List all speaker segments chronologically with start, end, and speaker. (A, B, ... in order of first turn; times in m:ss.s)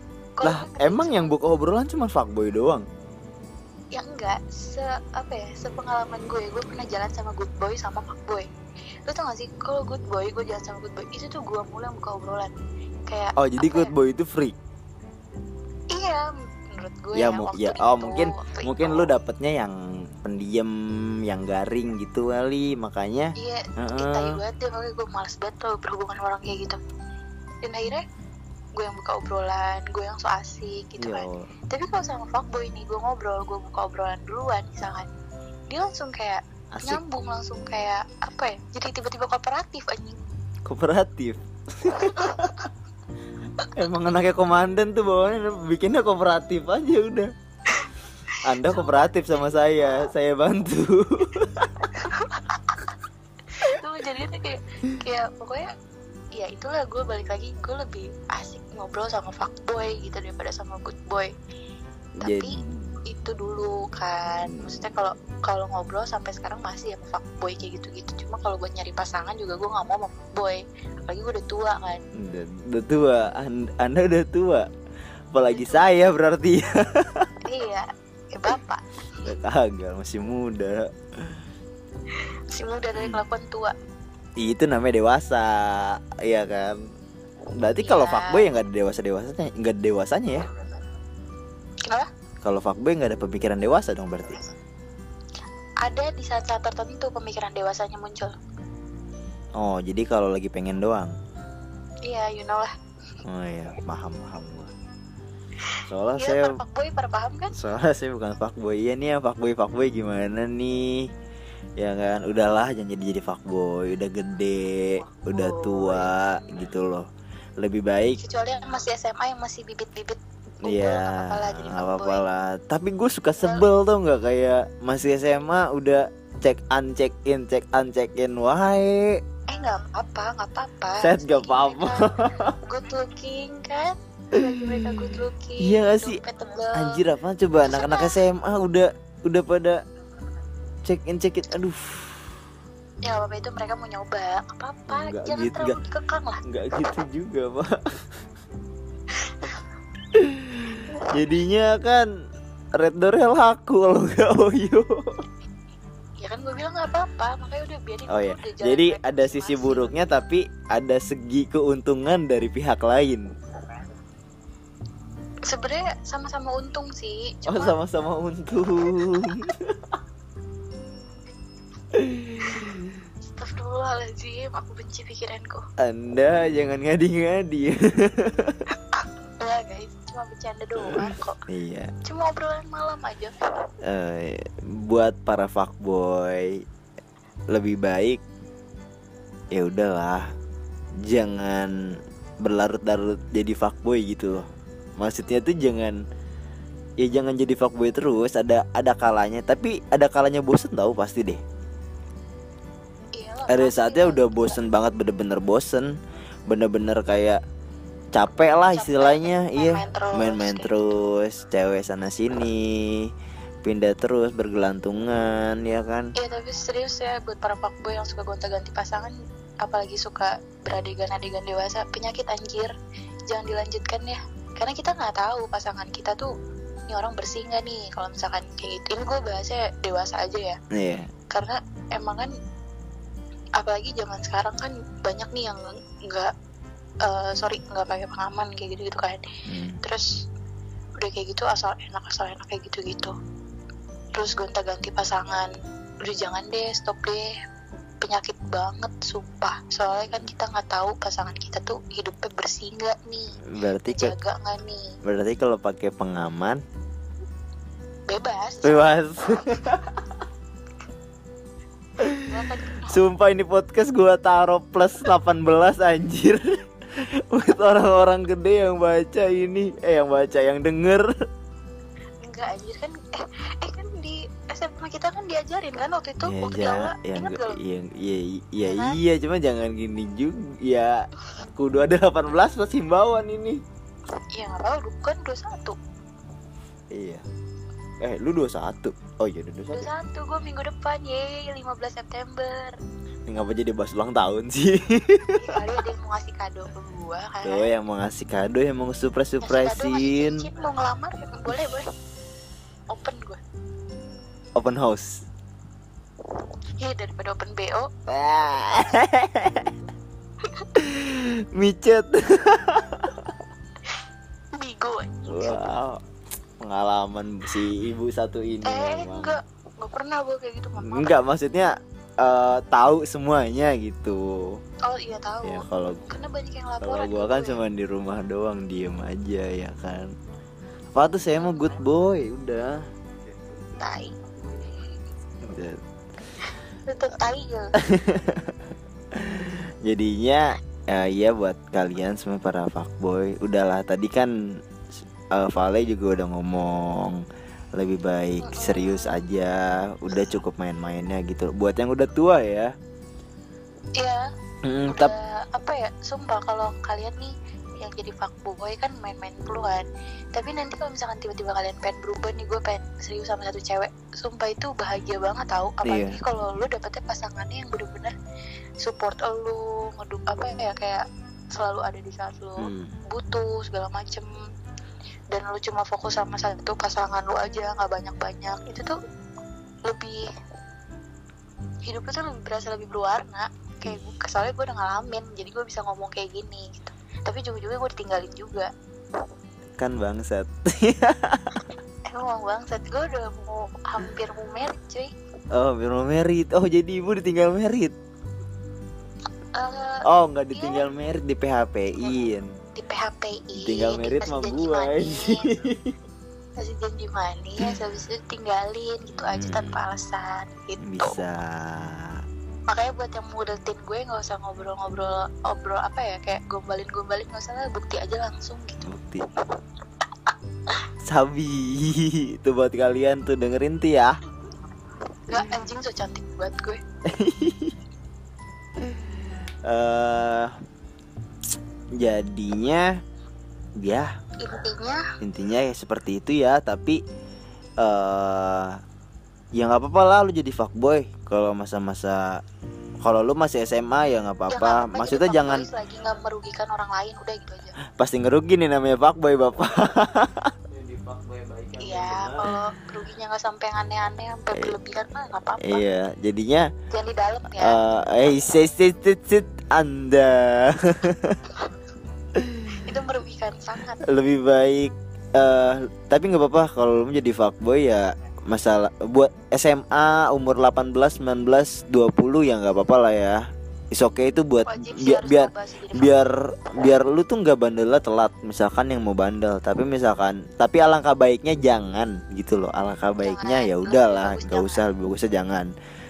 0:00.4-0:01.4 A
0:00.4-0:02.8 B
0:04.0-0:08.5 A
0:09.1-0:12.5 A
0:13.1-0:13.9 A
0:13.4-0:14.6 B
0:15.9-0:19.1 A
0:17.1-0:20.7 B
0:21.3-0:24.4 B
0:23.4-0:26.8 A
0:27.6-0:28.0 A
0:28.8-0:35.1 A
0:31.0-0:31.5 B
0:35.7-0:40.2 A
0:36.7-0:37.0 B
0:40.7-0:42.7 B
0:41.9-0:42.5 A
0:43.8-0:47.3 B
0:47.7-0:49.1 A
0:48.4-0:51.9 B
0:52.0-0:52.8 A
0:53.6-0:55.7 A
0:56.4-1:01.3 A
1:02.2-1:03.0 B
1:02.2-1:12.0 A
1:04.4-1:04.9 B
1:12.2-1:14.7 B
1:15.3-1:17.3 B
1:15.5-1:15.9 A
1:17.5-1:19.3 A
1:19.3-1:21.4 B
1:22.5-1:23.7 A
1:24.4-1:26.8 B
1:27.6-1:30.4 B
1:27.8-1:28.4 A
1:32.4-1:34.4 B
1:35.8-1:38.3 A
1:39.6-1:41.1 B
1:42.1-1:42.7 A
1:43.2-1:44.7 B
1:45.7-1:47.5 A
1:45.9-1:46.6 B
1:47.5-1:51.1 B
1:51.8-1:57.1 B
1:55.2-1:56.1 A
1:57.6-1:58.2 B
1:58.2-2:02.2 A
2:00.6-2:09.2 B
2:09.5-2:12.1 A
2:11.0-2:12.6 B
2:12.6-2:17.0 A
2:14.6-2:16.2 B
2:16.8-2:19.8 B
2:17.6-2:18.1 A
2:20.9-2:22.3 B
2:23.1-2:26.4 A
2:24.9-2:25.8 B
2:26.5-2:27.8 B
2:29.3-2:29.6 A
2:30.1-2:32.1 B
2:32.8-2:35.2 B
2:36.2-2:40.0 A
2:38.1-2:43.3 B
2:45.5-2:47.8 A
2:47.5-2:50.0 B
2:51.9-2:53.0 B
2:53.3-2:55.6 A
2:55.8-2:58.6 B
2:58.9-3:01.4 A
3:00.9-3:01.9 B
3:02.0-3:03.3 A
3:03.8-3:06.6 B
3:07.5-3:08.2 B
3:09.5-3:10.3 B
3:11.1-3:11.7 B
3:12.4-3:14.5 B
3:15.0-3:16.0 B
3:17.0-3:21.4 B
3:23.2-3:24.6 A
3:23.5-3:25.9 B
3:26.5-3:27.4 B
3:28.1-3:33.1 B
3:28.7-3:30.9 A
3:33.6-3:36.1 B
3:36.2-3:42.7 A
3:43.3-3:46.3 A
3:46.9-3:50.6 A
3:50.7-3:51.1 B
3:51.3-3:52.3 A
3:53.6-3:56.3 A
3:57.0-3:59.3 A
3:59.5-3:59.8 B
4:01.0-4:03.1 A
4:04.2-4:05.5 A
4:06.0-4:07.3 A
4:08.0-4:14.9 A
4:13.5-4:14.1 B
4:15.0-4:16.6 B
4:18.1-4:19.0 A
4:18.6-4:20.0 B
4:22.0-4:22.3 B
4:22.2-4:23.0 A
4:22.9-4:31.1 B
4:32.2-4:37.6 A
4:36.3-4:41.0 B
4:38.7-4:39.0 A
4:41.6-4:43.6 B
4:44.4-4:45.8 A
4:46.9-4:47.2 B
4:48.0-4:49.9 B
4:49.7-4:52.8 A
4:53.3-4:55.6 B
4:55.4-4:57.7 A
4:57.4-5:00.4 B
4:59.4-5:01.9 A
5:02.9-5:03.4 A
5:04.6-5:05.2 B
5:06.8-5:07.9 A
5:08.1-5:09.7 B
5:10.7-5:13.3 B
5:14.6-5:15.7 A
5:15.3-5:16.0 B
5:16.6-5:19.4 B
5:18.6-5:21.2 A
5:20.8-5:24.6 B
5:24.8-5:27.6 A
5:25.4-5:26.1 B
5:26.8-5:30.1 B
5:30.9-5:32.8 B
5:33.8-5:34.1 A
5:35.4-5:35.8 B
5:36.4-5:37.7 A
5:37.8-5:38.6 B
5:39.1-5:44.3 B
5:45.3-5:47.2 B
5:47.8-5:52.7 B
5:48.4-5:49.2 A
5:54.0-5:54.2 A
5:54.6-5:55.1 B
5:54.9-5:59.8 A
6:00.4-6:08.1 A
6:05.8-6:06.2 B
6:08.8-6:11.0 A
6:11.5-6:14.3 A
6:12.6-6:13.0 B
6:15.3-6:18.9 A
6:19.9-6:20.2 A
6:21.8-6:28.7 A
6:29.8-6:31.6 B
6:32.1-6:35.1 A
6:35.6-6:38.0 B
6:39.6-6:40.9 A
6:40.1-6:42.5 B
6:42.8-6:45.5 A
6:43.6-6:45.9 B
6:46.6-6:51.2 A
6:49.2-6:49.8 B
6:50.8-6:52.2 B
6:52.7-6:58.9 A
6:58.8-6:59.2 B
7:01.1-7:04.2 B
7:05.3-7:06.8 A
7:07.1-7:07.8 B
7:08.8-7:10.5 B
7:12.0-7:12.9 B
7:13.8-7:14.1 B
7:14.4-7:15.0 A
7:15.2-7:17.0 B
7:17.8-7:18.8 B
7:19.6-7:22.4 B
7:23.0-7:25.7 B
7:24.5-7:27.8 A
7:27.9-7:32.6 B
7:31.8-7:35.9 A
7:35.6-7:36.7 B
7:36.9-7:37.8 A
7:37.6-7:41.4 B
7:42.4-7:42.8 B
7:42.8-7:44.0 A
7:44.0-7:53.4 B
7:53.9-8:05.7 B
7:54.7-7:56.2 A
8:03.2-8:04.8 A